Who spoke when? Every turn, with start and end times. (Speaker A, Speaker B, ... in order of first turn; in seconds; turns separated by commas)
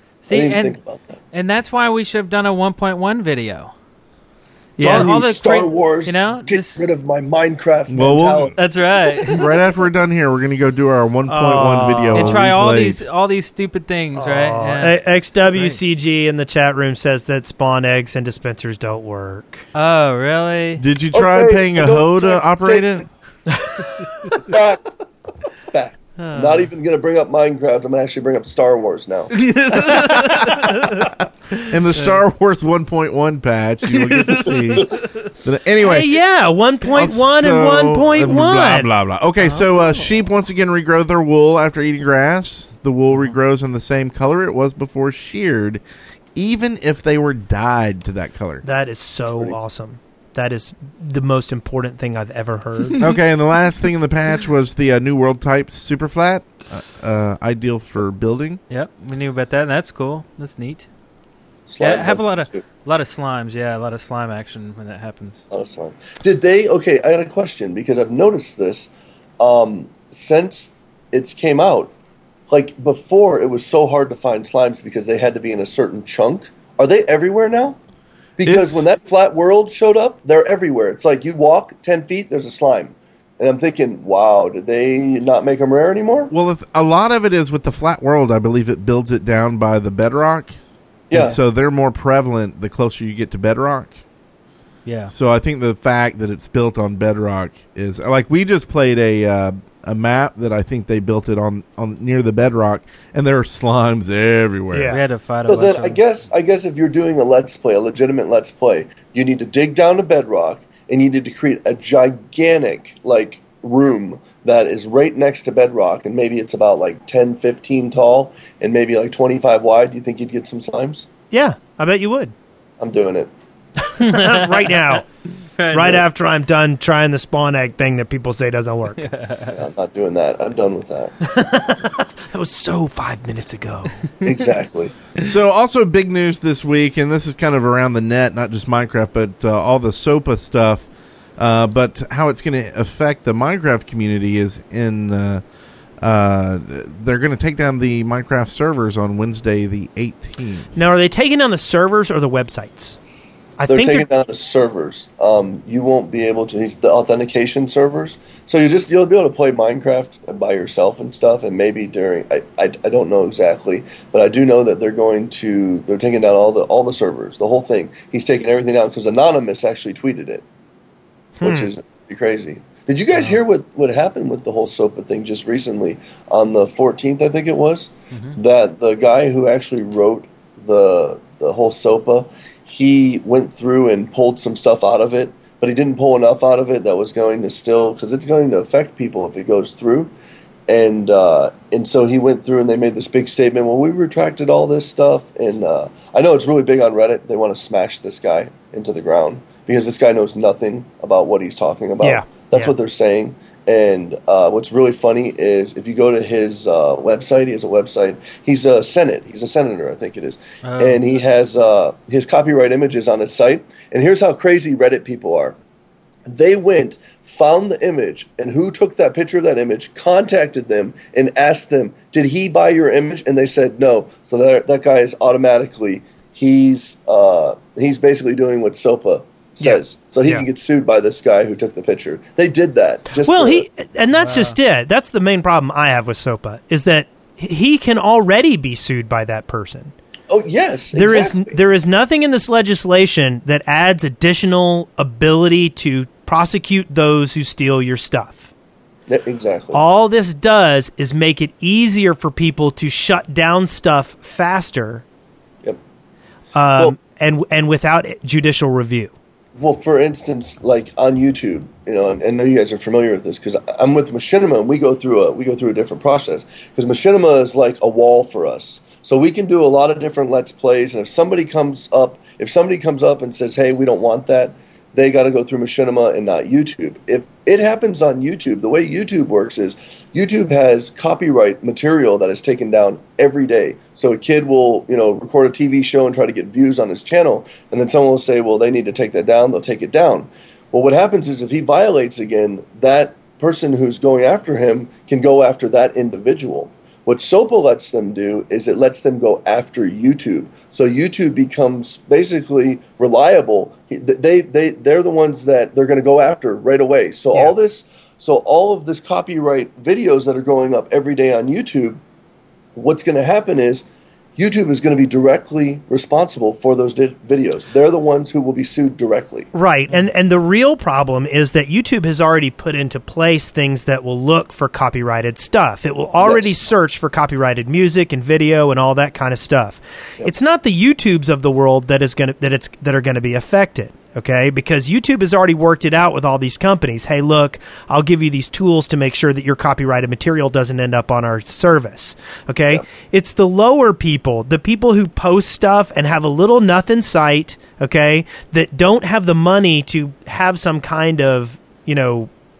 Speaker A: 0.2-0.8, Speaker B: 0.3-1.0, Speaker A: 1.3-3.7, Speaker C: 4.8-5.1, Speaker B: 4.8-8.6, Speaker A: 4.8-6.8, Speaker D: 7.9-8.5, Speaker A: 8.6-9.4, Speaker D: 9.3-13.0, Speaker C: 11.3-12.4, Speaker A: 12.1-15.0, Speaker C: 14.2-19.6, Speaker A: 15.5-15.8, Speaker A: 19.7-20.8, Speaker D: 20.8-23.1, Speaker B: 21.1-23.1, Speaker B: 24.3-24.9, Speaker B: 25.7-29.5, Speaker A: 26.2-26.7, Speaker A: 29.4-31.1, Speaker D: 30.2-30.6, Speaker D: 31.6-36.2, Speaker A: 31.9-32.2, Speaker A: 33.9-35.2, Speaker C: 35.8-38.9, Speaker D: 36.9-45.8, Speaker A: 39.4-40.1, Speaker D: 46.3-48.6, Speaker C: 48.6-53.0, Speaker D: 53.0-58.6, Speaker A: 58.7-60.9, Speaker B: 61.7-62.6, Speaker A: 61.8-65.4, Speaker B: 65.5-71.9, Speaker B: 72.5-77.8, Speaker B: 78.4-86.3, Speaker D: 78.4-78.9, Speaker D: 86.3-90.5, Speaker B: 91.1-91.4, Speaker D: 91.1-94.0, Speaker A: 94.8-95.1, Speaker D: 95.1-105.0, Speaker C: 104.7-105.0, Speaker A: 104.9-106.0, Speaker B: 105.4-121.1, Speaker C: 121.3-122.3, Speaker B: 122.8-123.3, Speaker C: 123.9-125.1, Speaker A: 124.0-125.0, Speaker A: 125.6-126.0, Speaker C: 125.7-129.0, Speaker A: 129.0-129.6, Speaker B: 129.5-131.1, Speaker C: 131.2-134.0, Speaker B: 134.2-134.9, Speaker D: 135.2-145.4, Speaker D: 146.0-150.7, Speaker C: 150.7-153.0, Speaker C: 153.6-154.1, Speaker B: 153.7-170.4, Speaker C: 171.4-171.7, Speaker B: 171.4-190.1, Speaker B: 190.7-215.6, Speaker C: 202.0-202.7, Speaker A: 210.6-211.0, Speaker B: 216.3-233.6, Speaker C: 229.6-230.4, Speaker C: 233.2-239.9, Speaker A: 234.2-234.5, Speaker B: 240.3-241.6, Speaker C: 240.9-248.5, Speaker B: 249.1-249.8, Speaker C: 249.7-255.0, Speaker C: 256.5-259.1, Speaker B: 259.6-312.0, Speaker B: 312.7-313.8, Speaker B: 314.4-319.5, Speaker C: 319.5-352.3, Speaker B: 326.2-326.7